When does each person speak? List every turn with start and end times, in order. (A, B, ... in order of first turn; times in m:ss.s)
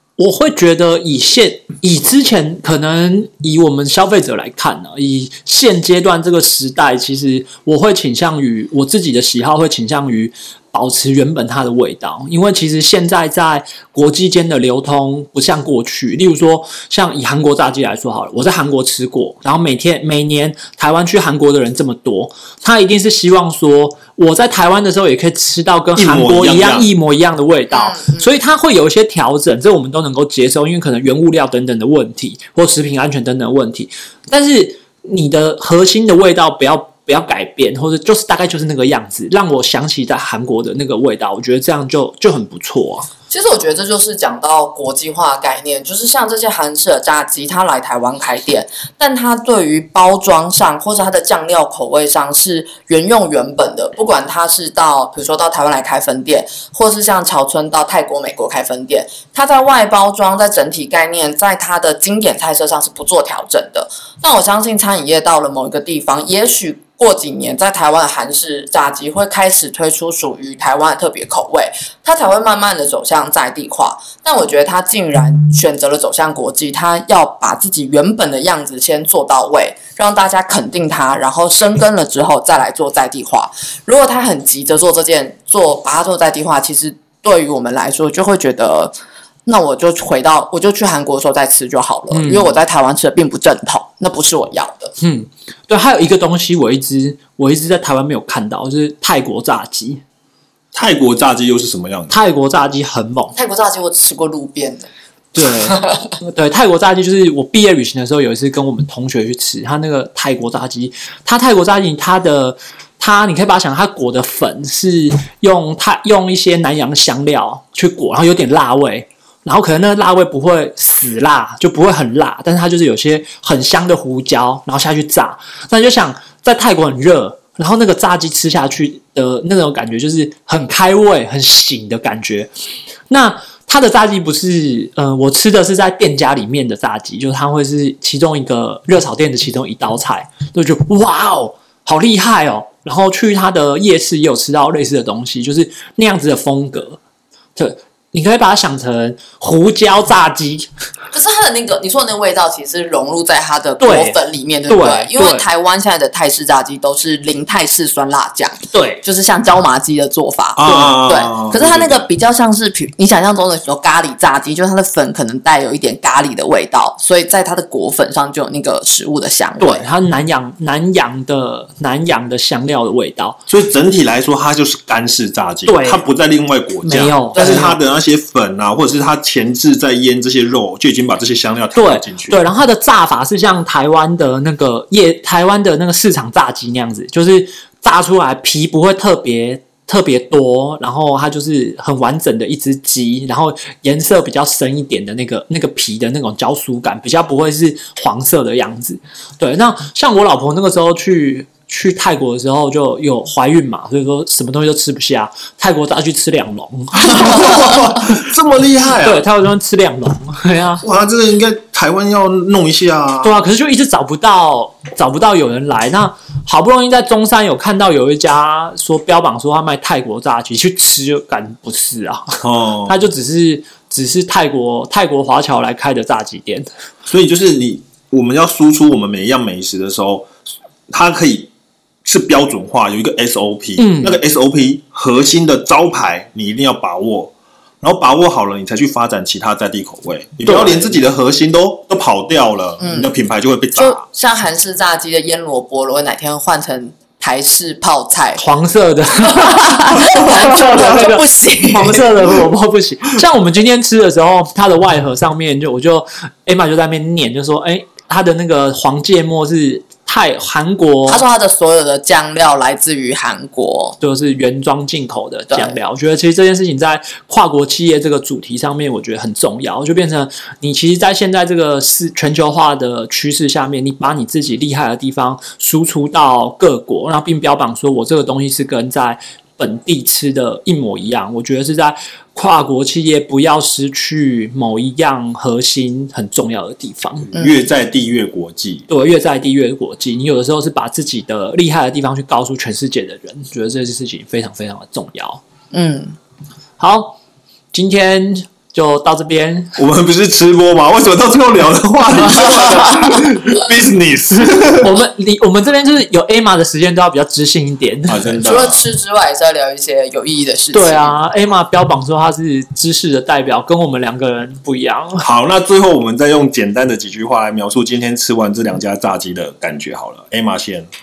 0:00.2-0:43.1 A
0:26.0-0:26.9 B
0:27.7-0:28.3 C
0:43.3-1:28.9 C
1:29.4-1:34.9 C
1:32.1-1:32.6 A
1:35.0-1:40.0 A
1:40.7-1:42.2 B
1:42.1-1:43.4 A
1:43.4-1:44.9 C
1:45.3-2:12.5 A
1:45.6-1:46.1 C
2:13.1-2:27.0 A
2:27.6-2:30.7 A
2:31.1-2:49.8 C
2:33.8-2:34.2 A
2:34.7-2:35.5 A
2:38.7-2:39.0 A
2:40.6-2:42.1 B
2:40.6-2:40.9 A
2:49.6-2:53.4 A
2:53.5-3:02.4 B
2:55.6-2:56.0 A
2:56.8-2:57.8 A
2:57.3-2:57.7 C
3:01.8-3:28.2 A
3:27.0-3:29.2 B
3:29.0-3:30.8 A
3:30.8-3:33.3 B
3:33.2-3:46.7 A
3:42.4-3:43.0 B
3:47.1-3:50.3 B
3:50.9-3:51.5 B
3:52.0-4:04.0 B
3:53.8-3:54.2 A
4:00.4-4:00.9 A
4:02.8-4:03.1 C
4:03.8-4:08.4 C
4:08.4-4:21.2 A
4:09.2-4:12.1 C
4:21.1-4:24.0 C
4:24.0-4:47.3 A
4:25.5-4:25.8 C
4:47.3-4:48.9 B
4:48.9-4:55.4 A
4:55.7-4:56.2 C
4:56.8-4:57.2 A
4:57.7-4:59.8 A
4:59.8-5:04.9 B
5:04.7-5:08.4 A
5:08.1-5:08.8 B
5:08.4-5:11.1 C
5:10.7-5:15.2 A
5:15.2-5:20.9 B